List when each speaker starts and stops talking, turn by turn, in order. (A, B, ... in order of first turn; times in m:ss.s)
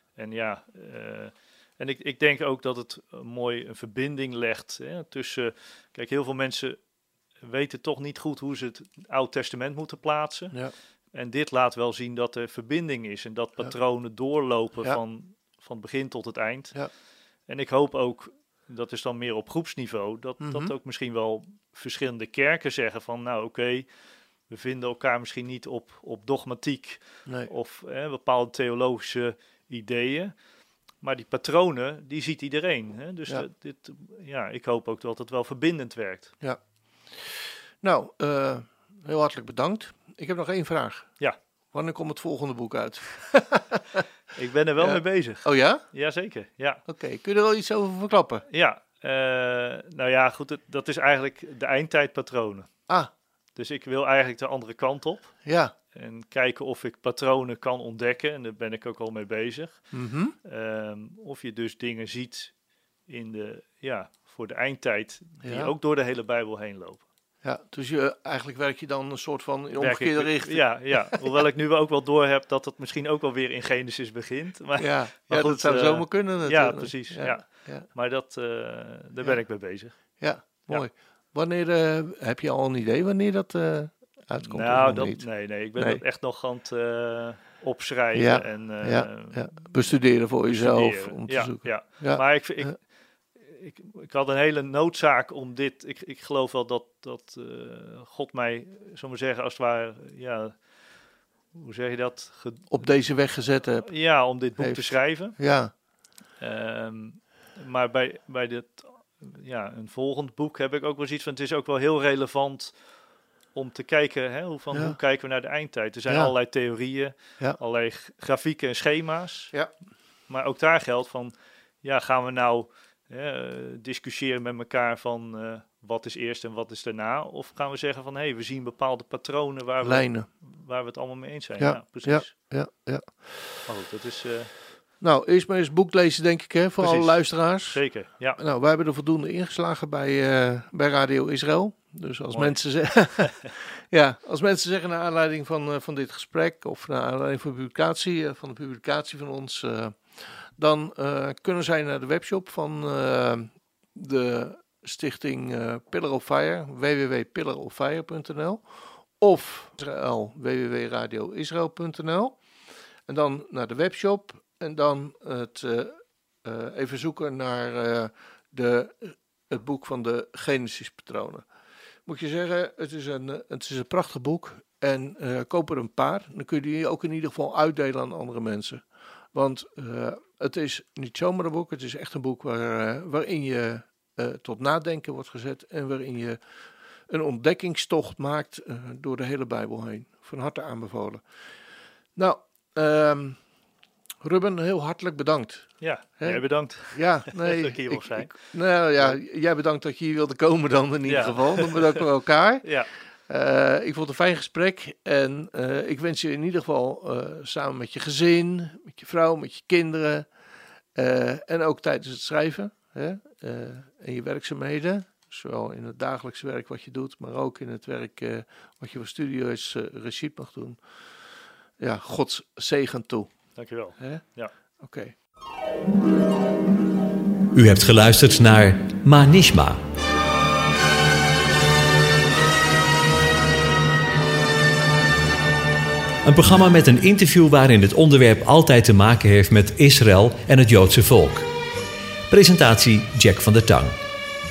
0:00.2-0:06.8 A
0:07.4-0:10.6 A
0:11.1-0:16.8 A
0:17.5-0:23.9 A
0:20.4-0:20.7 B
0:24.5-0:30.3 A
0:31.0-0:36.3 A
0:37.2-0:41.1 B
0:41.7-0:44.0 B
0:44.3-0:46.8 A
0:44.8-0:45.8 B
0:46.9-0:48.4 B
0:48.5-0:52.7 A
0:53.6-0:55.4 A
0:55.4-0:55.7 B
0:55.9-0:59.8 A
0:59.9-1:00.3 B
1:00.4-1:02.5 A
1:03.1-1:07.0 A
1:05.4-1:05.7 B
1:07.4-1:11.4 B
1:09.8-1:20.0 A
1:14.8-1:17.8 B
1:20.2-1:26.0 B
1:24.4-1:29.6 A
1:28.1-1:32.7 B
1:30.4-1:32.8 A
1:33.4-1:40.6 A
1:41.5-1:42.8 A
1:42.7-1:43.9 B
1:43.8-1:45.4 A
1:44.6-1:45.7 B
1:46.4-1:52.7 A
1:53.5-1:59.5 A
1:56.1-1:56.3 B
2:00.3-2:12.3 A
2:09.8-2:10.3 B
2:11.6-2:13.2 B
2:13.6-2:14.5 A
2:15.0-2:17.8 B
2:16.8-2:18.4 A
2:18.4-2:42.4 B
2:22.3-2:22.6 A
2:23.2-2:23.5 A
2:43.0-2:51.4 B
2:52.0-3:06.4 B
3:07.1-3:11.2 B
3:12.2-3:13.4 B
3:14.2-3:22.6 B
3:15.8-3:18.3 A
3:21.0-3:22.1 A
3:22.6-3:22.9 A
3:23.3-3:30.3 B
3:30.9-3:40.8 B
3:41.8-3:43.3 B
3:43.6-3:44.5 A
3:44.0-3:44.2 B
3:44.8-3:45.1 B
3:47.5-3:49.8 C
3:56.2-4:01.5 C
4:02.3-4:04.0 C